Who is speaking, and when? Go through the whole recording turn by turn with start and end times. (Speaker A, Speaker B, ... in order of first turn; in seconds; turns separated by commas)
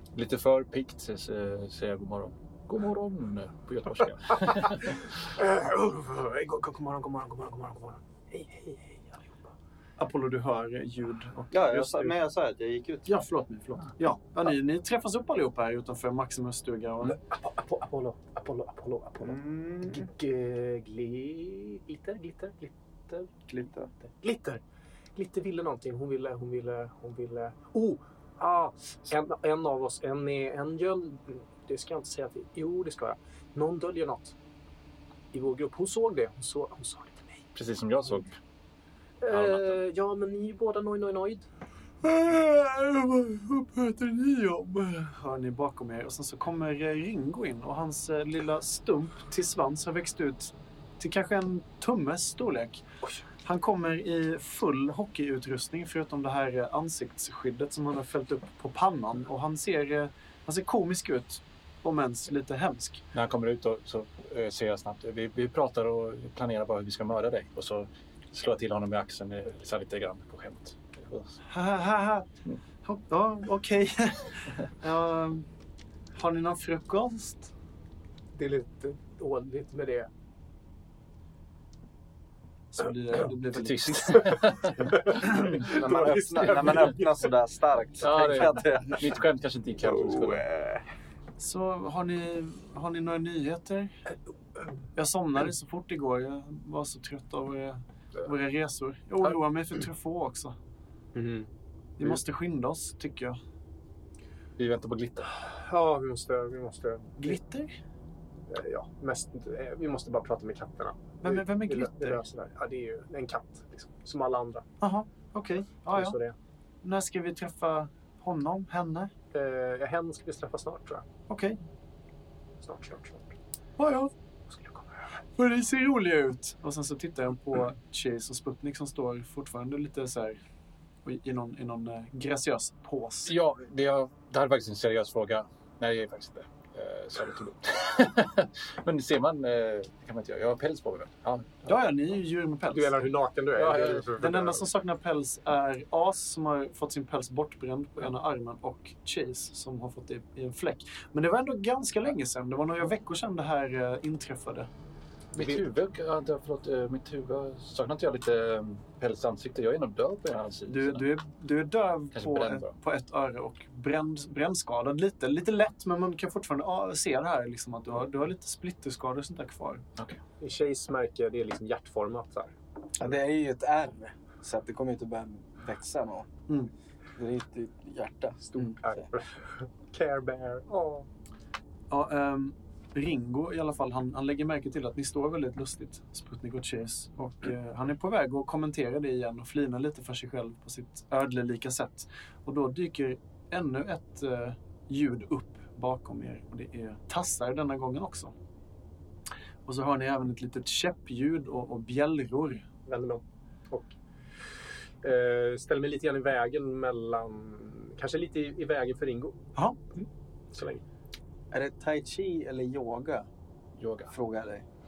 Speaker A: 0.1-5.1, Speaker B: 4.4-9.4, Speaker C: 10.0-12.2, Speaker D: 11.5-13.2, Speaker C: 13.1-17.2, Speaker B: 17.0-23.4, Speaker D: 19.2-20.1, Speaker D: 23.5-23.9, Speaker B: 23.9-24.6, Speaker B: 25.1-34.4, Speaker B: 35.3-37.4, Speaker A: 37.5-38.3, Speaker B: 39.2-41.5, Speaker A: 39.3-39.8, Speaker C: 42.0-52.9, Speaker C: 53.4-63.0, Speaker A: 63.1-71.4, Speaker C: 71.5-72.3, Speaker C: 72.8-75.5, Speaker C: 76.1-77.5, Speaker B: 78.3-80.1, Speaker C: 82.7-85.3, Speaker A: 83.5-85.5, Speaker B: 84.8-87.3, Speaker D: 85.2-89.2, Speaker A: 88.0-90.4, Speaker B: 89.8-90.5, Speaker D: 90.0-90.7, Speaker C: 91.4-94.0, Speaker C: 95.0-100.5, Speaker B: 101.1-101.5, Speaker C: 102.0-103.4, Speaker A: 104.6-105.3, Speaker B: 105.4-107.4, Speaker C: 107.2-107.7, Speaker B: 108.5-114.7, Speaker C: 111.2-112.2, Speaker C: 114.8-116.2, Speaker B: 115.9-116.3, Speaker C: 116.8-119.1, Speaker B: 119.3-121.0, Speaker C: 121.3-121.6, Speaker B: 122.6-123.3, Speaker C: 123.8-124.1, Speaker B: 124.5-125.2, Speaker C: 125.4-130.4, Speaker C: 131.0-133.3, Speaker A: 133.2-141.8, Speaker C: 141.6-143.1, Speaker B: 142.7-144.6, Speaker A: 143.6-144.2, Speaker C: 143.6-154.7, Speaker A: 155.3-161.0, Speaker C: 160.7-169.8, Speaker A: 162.1-162.7, Speaker B: 170.4-172.5, Speaker E: 173.0-176.3, Speaker E: 177.2-179.0, Speaker B: 178.5-181.1, Speaker C: 181.9-198.3, Speaker C: 199.7-202.7, Speaker B: 202.8-203.9, Speaker B: 205.0-209.4, Speaker B: 209.9-210.8, Speaker E: 211.5-213.3, Speaker A: 213.8-214.1, Speaker E: 214.1-214.7